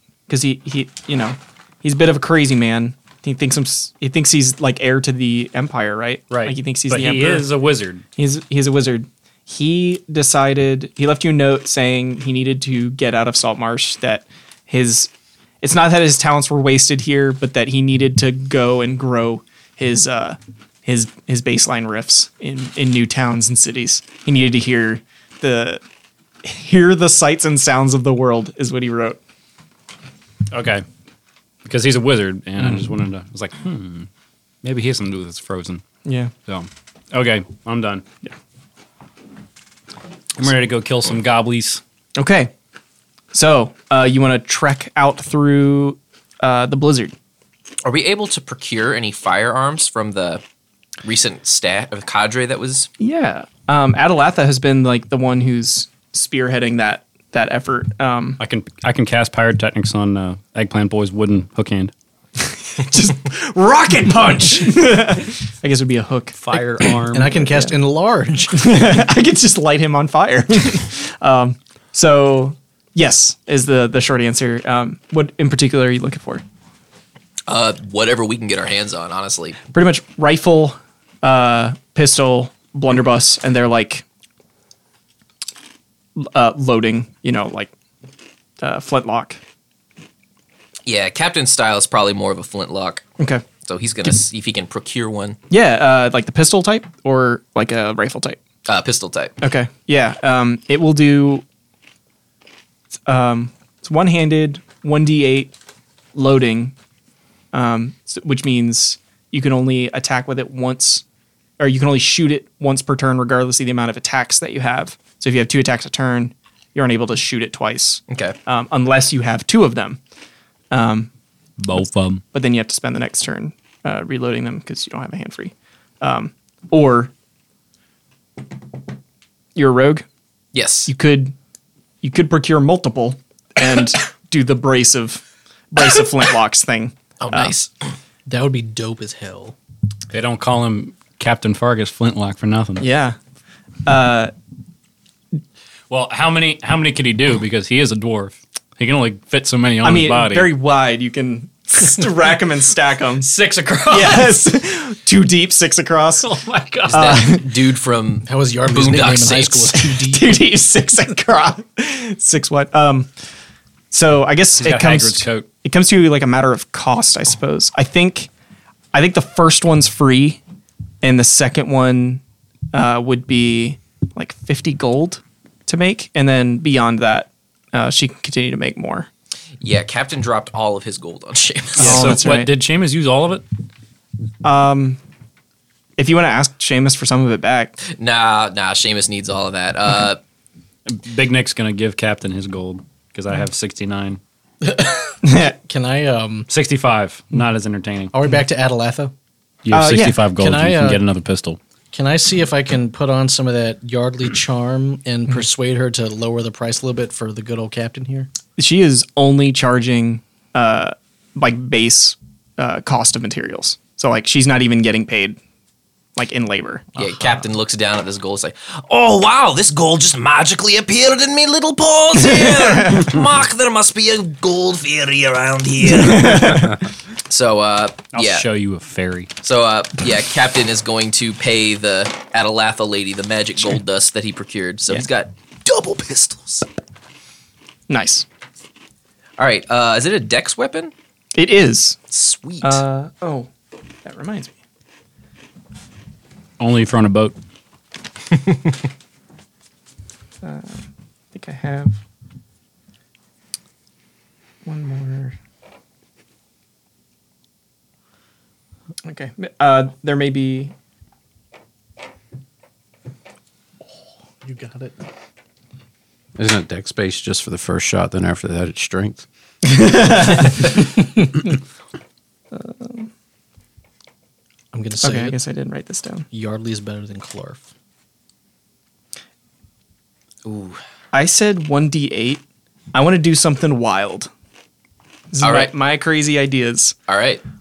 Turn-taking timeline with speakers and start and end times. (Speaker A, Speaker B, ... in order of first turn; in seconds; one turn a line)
Speaker A: 0.3-7.5
Speaker B: 6.3-8.0
Speaker A: 8.2-25.8
Speaker A: 26.4-29.2
Speaker B: 30.5-30.8
Speaker B: 31.6-34.1
Speaker B: 34.6-35.8
Speaker A: 36.0-36.3
Speaker B: 36.5-38.0
Speaker B: 40.4-41.8
Speaker A: 42.1-42.5
Speaker A: 43.3-47.1
Speaker C: 47.8-50.4
Speaker C: 51.0-52.9
Speaker A: 53.0-58.4
Speaker B: 58.4-61.9
Speaker A: 62.4-66.4
Speaker B: 66.3-67.5
Speaker D: 67.1-68.7
Speaker A: 68.5-76.4
Speaker C: 77.5-79.6
Speaker A: 79.7-84.0
Speaker A: 86.2-87.7
Speaker A: 88.6-89.4
Speaker C: 90.8-93.1
Speaker A: 93.2-93.5
Speaker C: 93.6-95.4
Speaker A: 95.5-98.4
Speaker C: 98.7-99.3
Speaker A: 99.4-101.4
Speaker A: 103.0-105.5
Speaker A: 106.1-106.7
Speaker A: 107.5-111.0
Speaker A: 111.6-120.0
Speaker C: 118.1-118.3
Speaker A: 120.7-121.1
Speaker B: 121.6-122.2
Speaker A: 122.3-127.1
Speaker A: 129.5-130.1
Speaker C: 130.5-130.9
Speaker A: 130.9-131.3
Speaker A: 132.0-137.6
Speaker C: 137.2-137.7
Speaker D: 138.2-139.6
Speaker B: 140.1-142.9
Speaker A: 142.8-143.2
Speaker A: 143.8-144.3
Speaker B: 145.9-150.5
Speaker A: 149.8-153.3
Speaker B: 153.2-154.4
Speaker A: 153.9-156.3
Speaker B: 156.2-157.3
Speaker A: 156.9-157.5
Speaker C: 156.9-159.7
Speaker D: 158.2-160.3
Speaker A: 159.8-163.1
Speaker A: 163.9-168.3
Speaker B: 164.6-165.5
Speaker A: 168.9-170.4
Speaker A: 171.0-172.2
Speaker A: 172.7-179.1
Speaker C: 179.6-182.2
Speaker A: 181.8-182.5
Speaker B: 181.8-183.4
Speaker A: 184.4-185.0
Speaker A: 186.0-187.8
Speaker C: 187.8-190.2
Speaker B: 190.8-194.2
Speaker D: 194.6-196.5
Speaker A: 195.2-195.5
Speaker B: 196.5-198.1
Speaker D: 198.1-199.1
Speaker B: 199.6-201.6
Speaker A: 199.7-200.2
Speaker D: 200.3-201.0
Speaker D: 201.9-208.3
Speaker A: 208.6-215.4
Speaker A: 216.2-216.9
Speaker C: 216.9-228.4
Speaker A: 222.3-223.2
Speaker A: 225.9-226.8
Speaker B: 228.1-229.3
Speaker C: 229.4-236.7
Speaker A: 237.9-238.2
Speaker C: 239.4-240.9
Speaker A: 241.3-242.0
Speaker C: 242.1-242.8
Speaker A: 242.6-243.5
Speaker A: 244.0-244.6
Speaker B: 246.6-247.3
Speaker A: 250.4-252.0
Speaker A: 254.6-255.3
Speaker A: 259.0-260.7
Speaker D: 264.4-264.9
Speaker E: 266.4-269.2
Speaker A: 269.6-271.5
Speaker A: 272.5-273.1
Speaker D: 274.7-275.4
Speaker A: 275.0-276.3
Speaker D: 276.3-277.7
Speaker C: 280.4-280.8
Speaker A: 281.1-284.3
Speaker A: 285.3-286.9
Speaker C: 285.4-285.7
Speaker C: 287.1-287.4